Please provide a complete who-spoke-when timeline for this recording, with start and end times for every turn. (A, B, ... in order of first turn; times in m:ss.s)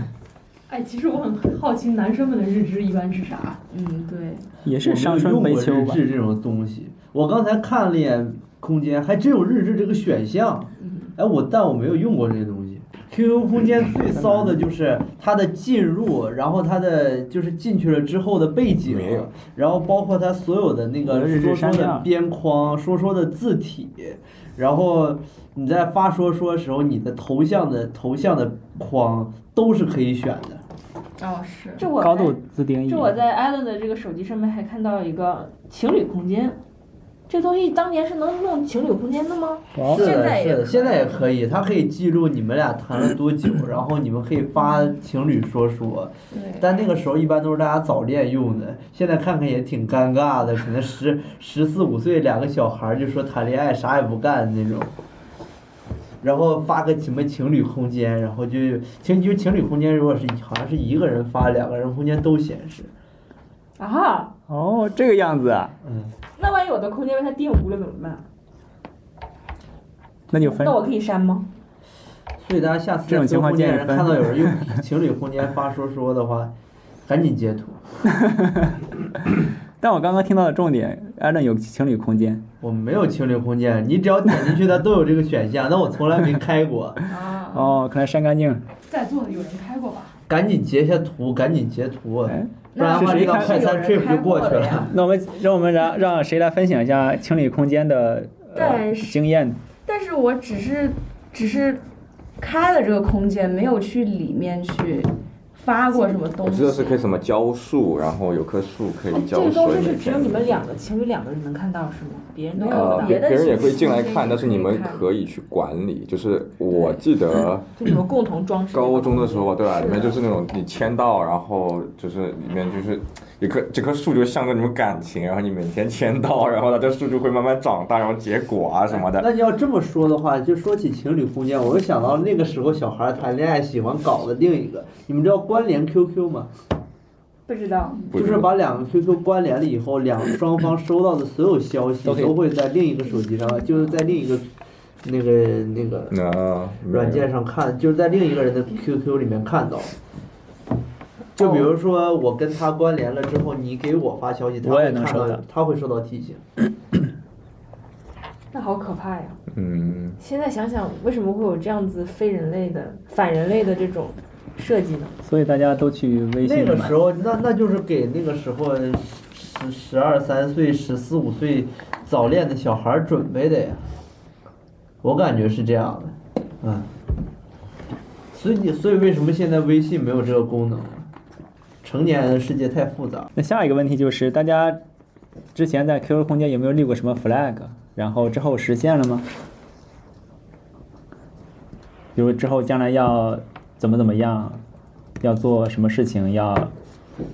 0:00.7-0:03.6 A
0:03.7-0:04.5 B
0:04.6-0:06.0 C
0:04.8-0:30.6 D
0:10.8-0:11.1 B
0:14.2-0:14.5 C
0:18.9-0:19.3 E
0:21.0-0:22.1 C
0:31.2-0:31.9 B
0:31.8-0:36.6 F
0:32.0-0:33.2 C
0:37.3-0:39.7 F
0:39.8-0:40.1 C
0:39.9-0:41.1 B
0:39.9-0:54.9 D
0:46.3-0:46.6 B
0:56.2-1:02.9 D
1:03.8-1:04.3 F
1:04.5-1:05.8 C
1:05.8-1:06.1 D
1:06.4-1:08.3 F
1:10.3-1:10.8 C
1:10.3-1:11.4 F
1:12.4-1:16.5 D
1:13.1-1:14.7 C
1:17.1-1:17.8 D
1:18.1-1:18.8 C
1:19.8-1:22.4 C
1:22.6-1:27.0 D
1:27.1-1:27.8 B
1:27.5-1:28.6 C
1:28.9-1:30.2 A
1:30.3-1:34.9 D
1:32.3-1:33.6 C
1:32.8-1:35.0 B
1:34.9-1:39.6 C
1:38.6-1:39.2 B
1:39.9-1:41.8 B
1:42.4-1:47.0 B
1:46.4-1:50.4 E
1:49.1-1:55.0 F
1:52.6-1:54.3 B
1:52.7-1:57.7 E
1:56.7-1:57.0 F
1:57.8-1:59.7 F
1:58.7-2:09.3 E
2:09.0-2:16.5 D
2:17.5-2:18.1 F
2:18.1-2:18.5 E
2:18.1-2:24.5 D
2:22.0-2:22.4 C
2:25.0-2:26.1 D
2:26.1-2:27.2 E
2:26.9-2:29.9 D
2:31.4-2:36.4 D
2:34.6-2:35.4 C
2:38.5-2:39.4 F
2:39.5-2:40.2 E
2:40.2-2:45.1 F
2:45.2-2:47.0 C
2:46.4-2:53.8 D
2:55.0-2:56.9 D
2:58.3-3:01.1 D
3:01.8-3:03.3 D
3:03.4-3:04.8 C
3:05.6-3:09.3 C
3:12.1-3:14.6 C
3:15.2-3:16.7 C